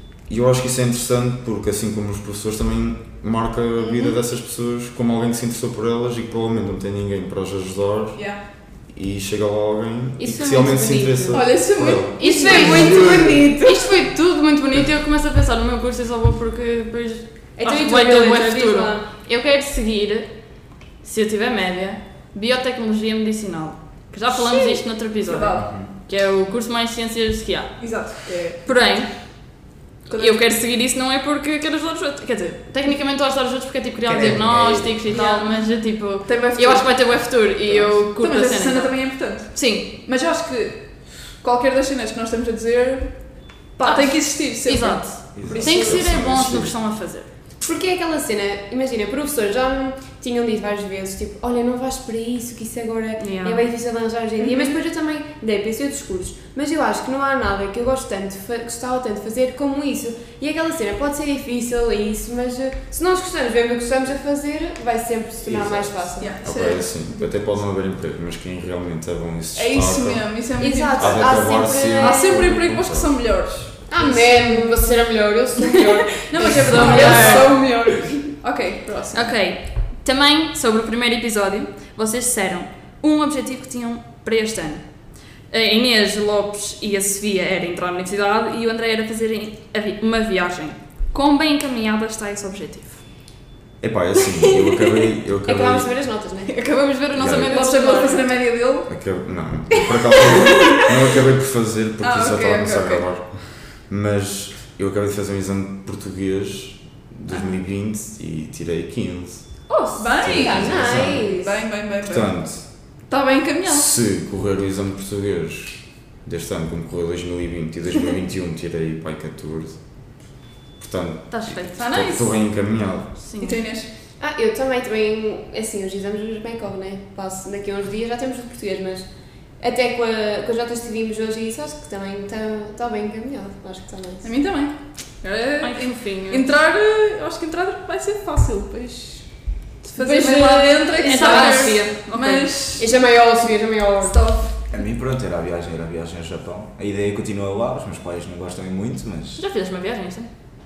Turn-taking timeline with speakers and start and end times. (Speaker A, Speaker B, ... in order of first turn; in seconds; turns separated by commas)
Speaker A: 0.3-8.3, Speaker B: 8.1-8.4, Speaker A: 8.9-13.5, Speaker C: 10.2-13.9, Speaker B: 11.3-13.1, Speaker D: 12.2-20.3, Speaker C: 17.6-19.1, Speaker D: 21.0-28.1, Speaker B: 24.3-25.8, Speaker E: 25.6-25.9, Speaker B: 27.8-29.0, Speaker D: 28.6-29.6, Speaker B: 30.1-30.4, Speaker D: 30.2-39.9, Speaker E: 34.0-35.1, Speaker B: 35.1-37.4, Speaker B: 38.0-46.0, Speaker D: 43.8-47.3, Speaker E: 45.4-45.9, Speaker A: 45.5-46.7, Speaker C: 47.6-66.4, Speaker D: 53.2-53.7, Speaker B: 54.4-54.7, Speaker E: 65.4-65.9, Speaker B: 66.2-67.0, Speaker A: 66.4-70.4, Speaker B: 69.5-73.8, Speaker C: 70.6-72.6, Speaker A: 71.0-73.2, Speaker C: 73.9-78.3, Speaker D: 74.0-74.6, Speaker B: 76.2-77.7, Speaker D: 76.4-77.5, Speaker B: 78.4-79.3, Speaker D: 79.1-84.9, Speaker D: 85.5-93.0, Speaker A: 93.8-95.9, Speaker C: 95.5-96.5, Speaker D: 96.5-98.2, Speaker A: 97.2-97.5, Speaker B: 97.4-98.9, Speaker A: 98.9-109.6, Speaker C: 100.3-100.8, Speaker B: 102.0-103.0, Speaker D: 107.3-107.6, Speaker D: 109.7-110.0, Speaker B: 110.0-112.5, Speaker A: 110.2-111.3, Speaker C: 110.2-111.6, Speaker A: 112.0-112.7, Speaker B: 113.1-113.9, Speaker A: 113.7-119.8, Speaker A: 120.8-123.1, Speaker D: 121.3-121.8, Speaker B: 121.8-122.4, Speaker D: 123.2-123.6, Speaker B: 123.4-123.9, Speaker C: 124.2-129.1, Speaker C: 129.6-134.3, Speaker B: 134.2-139.3, Speaker D: 135.6-136.5, Speaker B: 139.9-142.9, Speaker C: 140.0-141.9, Speaker D: 140.1-142.5, Speaker C: 142.8-144.3, Speaker B: 144.1-144.5, Speaker E: 144.7-149.4, Speaker D: 149.3-150.3